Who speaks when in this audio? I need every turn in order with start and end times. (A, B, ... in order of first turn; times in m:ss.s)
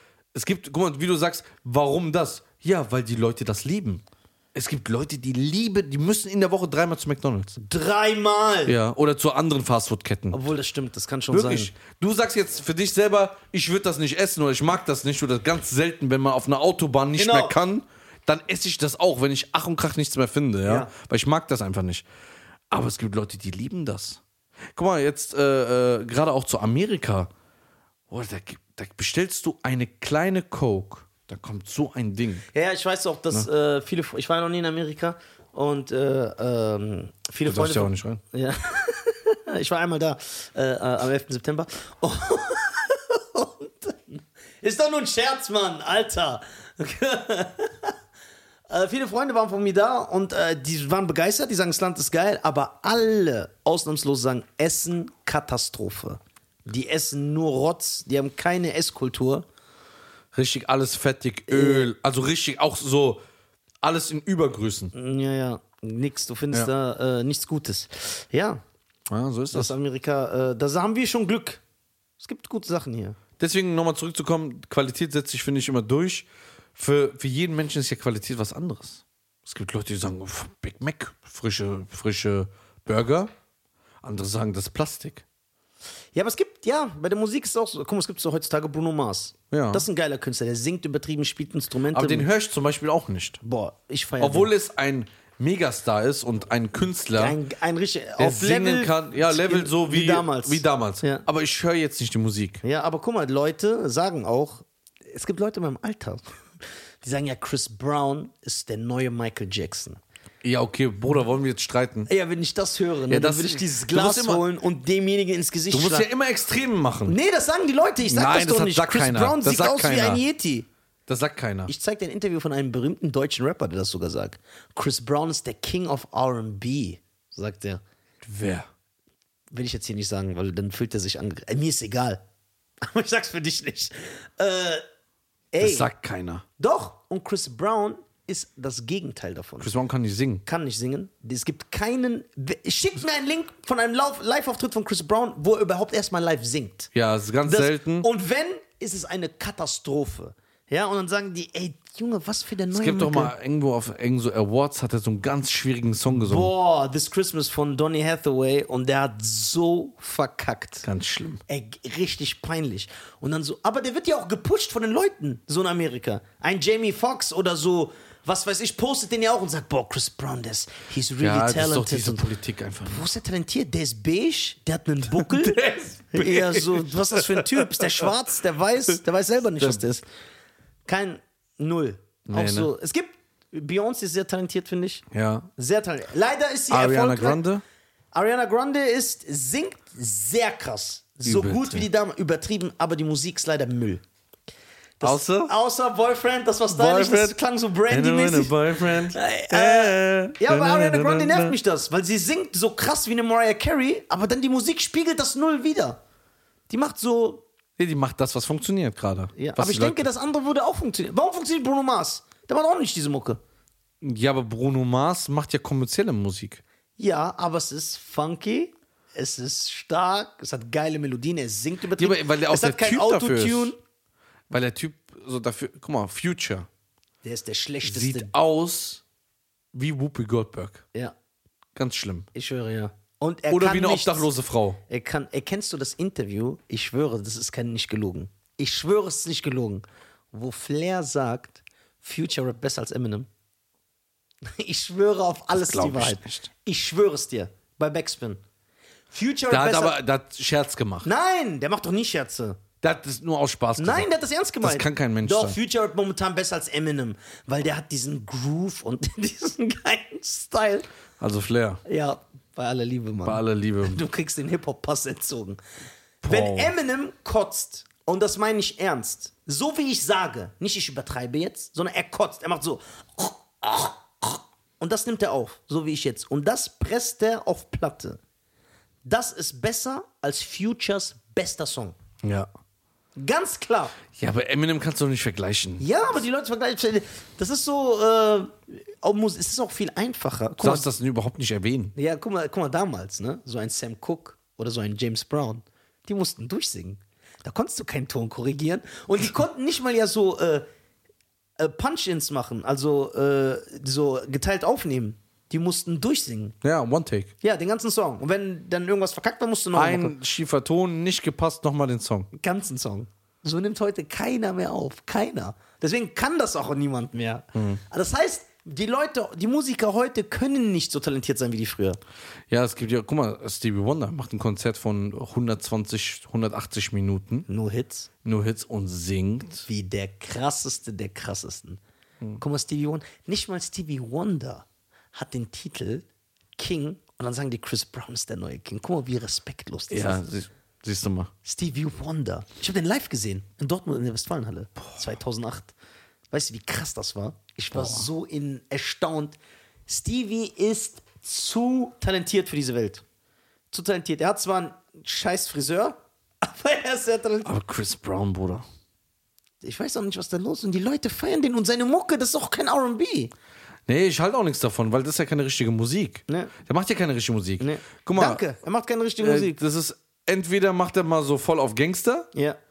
0:00.3-0:04.0 A
0:04.6-0:07.6 A
0:07.6-0:08.8 B
0:08.7-0:10.4 A
0:10.3-0:11.7 B
0:11.3-0:22.0 A
0:17.2-0:17.6 B
0:20.6-0:20.9 B
0:22.7-0:24.2 A
0:24.8-0:27.3 A
0:28.1-0:32.5 A
0:32.5-0:48.0 B
0:37.5-0:38.2 A
0:48.7-0:59.4 B
1:00.3-1:03.2 A
1:01.5-1:01.9 B
1:03.8-1:04.9 A
1:04.9-1:08.6 B
1:09.1-1:09.7 A
1:09.5-1:11.6 B
1:12.2-1:13.2 B
1:13.4-1:23.3 A
1:24.0-1:25.2 A
1:26.1-1:32.3 B
1:29.5-1:29.8 A
1:31.9-1:33.4 A
1:33.4-1:34.5 B
1:34.2-1:37.4 A
1:37.2-1:41.2 B
1:38.2-1:42.6 A
1:42.6-1:46.2 B
1:47.0-1:50.0 B
1:50.4-1:52.1 A
1:52.1-1:56.1 B
1:53.1-1:54.4 A
1:55.7-1:57.2 A
1:57.1-2:00.7 B
1:58.0-2:00.2 A
2:01.1-2:01.7 A
2:01.7-2:07.8 B
2:08.2-2:08.7 A
2:09.5-2:12.2 B
2:12.8-2:14.8 B
2:15.5-2:15.9 B
2:15.6-2:16.4 A
2:16.6-2:19.7 B
2:19.6-2:20.4 A
2:20.5-2:26.9 B
2:26.9-2:28.1 A
2:27.4-2:33.3 B
2:32.7-2:36.5 A
2:36.1-2:40.9 B
2:40.8-2:41.4 A
2:41.5-2:52.3 B
2:51.2-2:53.0 A
2:52.9-3:00.0 B
2:55.1-2:58.1 A
3:00.9-3:05.0 B
3:02.3-3:02.7 A
3:05.1-3:05.5 A
3:05.6-3:07.4 B
3:06.7-3:07.6 A
3:08.1-3:14.0 B
3:11.2-3:11.8 A
3:15.0-3:26.0 B
3:15.0-3:15.5 A
3:16.7-3:17.4 A
3:17.9-3:21.6 A
3:26.7-3:27.4 B
3:27.8-3:30.1 A
3:29.4-3:33.4 B
3:34.0-3:36.6 A
3:37.0-3:43.8 B
3:42.0-3:43.7 A
3:44.5-3:46.7 A
3:47.2-3:48.3 B
3:47.8-3:49.0 A
3:49.7-3:50.8 A
3:51.8-3:52.3 A
3:52.3-3:54.3 B
3:53.5-3:54.8 A
3:54.9-4:03.3 B
4:04.4-4:08.4 B
4:05.5-4:06.5 A
4:09.1-4:10.0 B
4:09.5-4:11.1 A
4:11.0-4:12.6 B
4:12.8-4:14.1 A
4:13.8-4:20.9 B
4:14.6-4:15.6 A
4:21.2-4:21.8 A
4:21.8-4:25.6 B
4:23.2-4:24.0 A
4:26.2-4:26.7 A
4:26.3-4:38.2 B
4:39.0-4:42.0 B
4:42.2-4:42.5 A
4:43.2-4:44.0 B
4:44.1-4:45.8 A
4:45.8-4:50.9 B
4:50.6-4:51.9 A
4:52.0-5:00.6 B
5:01.6-5:06.6 B
5:06.6-5:07.3 A
5:07.4-5:10.1 B
5:09.7-5:12.3 A
5:12.3-5:22.0 B
5:17.6-5:17.8 A
5:22.5-5:27.5 A
5:27.5-5:28.1 B
5:28.2-5:29.7 A
5:29.7-5:31.8 B
5:32.4-5:40.2 B
5:39.9-5:41.3 A
5:41.4-5:45.7 B
5:46.3-5:53.0 B
5:47.7-5:48.1 A
5:53.7-5:57.5 B
5:57.4-5:58.6 A
5:59.6-6:03.3 B
6:03.9-6:08.4 A
6:06.3-6:06.5 B
6:07.6-6:09.6 B
6:09.2-6:12.3 A
6:12.3-6:12.6 B